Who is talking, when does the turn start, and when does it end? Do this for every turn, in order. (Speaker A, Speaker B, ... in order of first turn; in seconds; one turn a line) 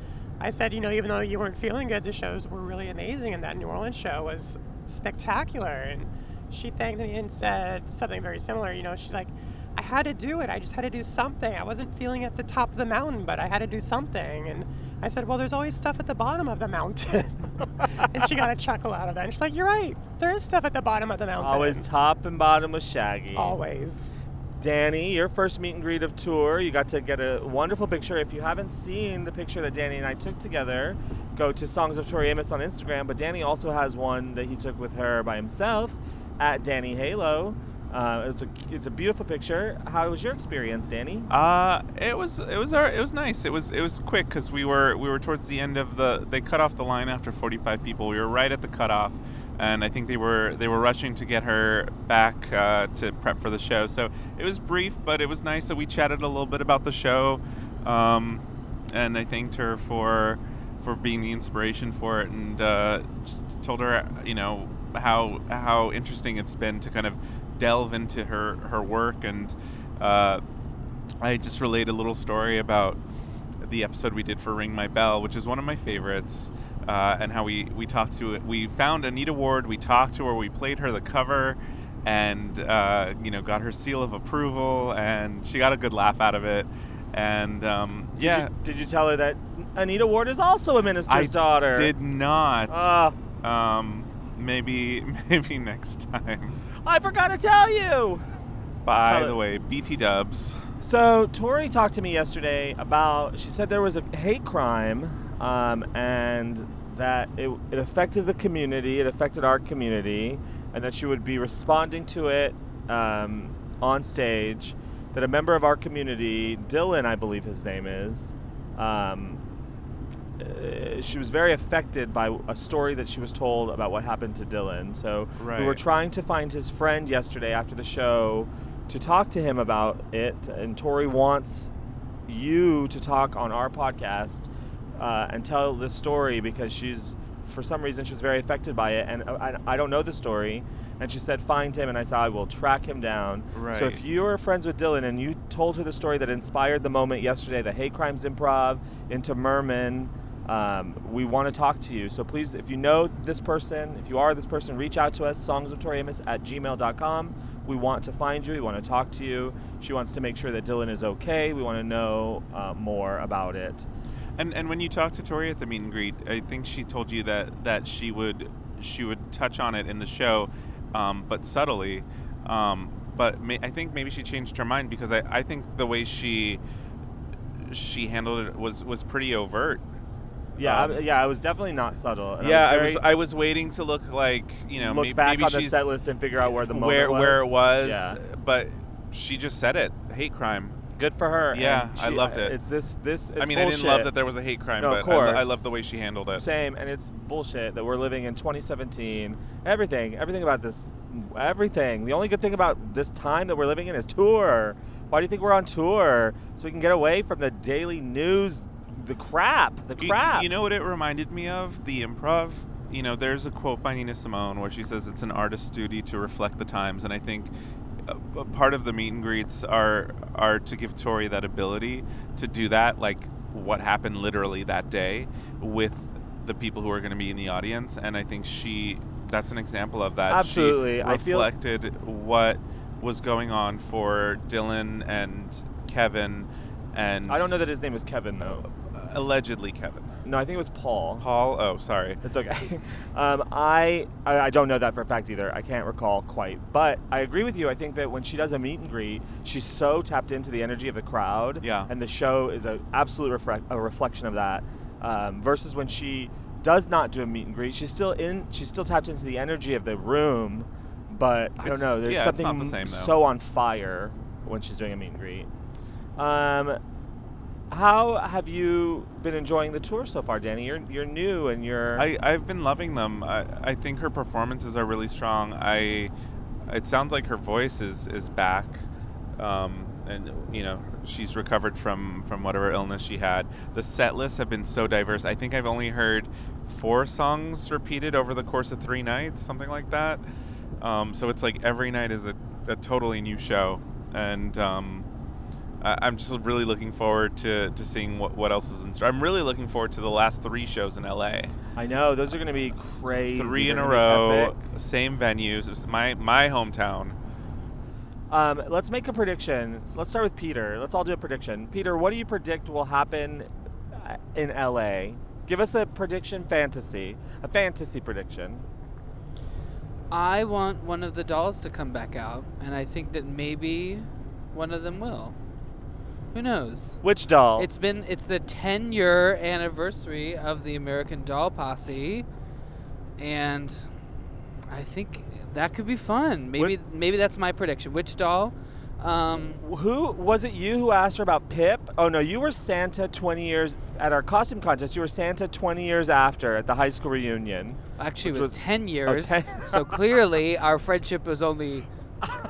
Speaker A: 0.4-21.9
Speaker B: 21.4-23.6
Speaker A: 23.3-24.1
Speaker B: 24.6-41.3
Speaker C: 41.3-70.4
Speaker C: 71.2-73.0
Speaker C: 73.6-88.5
Speaker B: 88.2-91.9
Speaker C: 91.1-96.6
Speaker B: 92.7-93.2
Speaker B: 96.8-98.2
Speaker C: 98.8-100.6
Speaker B: 99.0-99.4
Speaker B: 100.8-119.4
Speaker B: 120.4-131.7
Speaker C: 125.4-125.8
Speaker B: 132.3-163.9
Speaker C: 143.5-144.0
Speaker C: 164.4-176.6
Speaker C: 177.7-179.8
Speaker B: 180.6-183.0
Speaker C: 180.6-181.0
Speaker C: 182.4-185.8
Speaker B: 184.8-188.2
Speaker C: 186.4-190.8
Speaker B: 191.0-194.1
Speaker C: 191.5-192.6
Speaker C: 193.4-196.5
Speaker B: 194.8-195.7
Speaker B: 196.4-210.5
Speaker C: 210.0-217.5
Speaker C: 218.1-237.6
Speaker B: 230.3-231.5
Speaker B: 237.3-238.7
Speaker C: 238.4-240.2
Speaker B: 240.2-241.2
Speaker C: 241.2-242.2
Speaker B: 242.2-265.5
Speaker C: 251.6-251.9
Speaker C: 261.6-263.1
Speaker B: 266.2-266.8
Speaker B: 267.7-272.1
Speaker C: 272.0-276.1
Speaker C: 276.7-278.9
Speaker C: 279.4-290.2
Speaker C: 290.8-295.1
Speaker C: 295.8-301.5
Speaker B: 301.8-304.6
Speaker C: 303.4-307.2
Speaker B: 308.3-318.7
Speaker D: 320.1-325.4
Speaker D: 326.3-327.0
Speaker B: 327.0-327.7
Speaker D: 327.6-332.3
Speaker D: 333.2-333.9
Speaker D: 334.7-339.6
Speaker B: 339.6-349.9
Speaker D: 348.0-351.9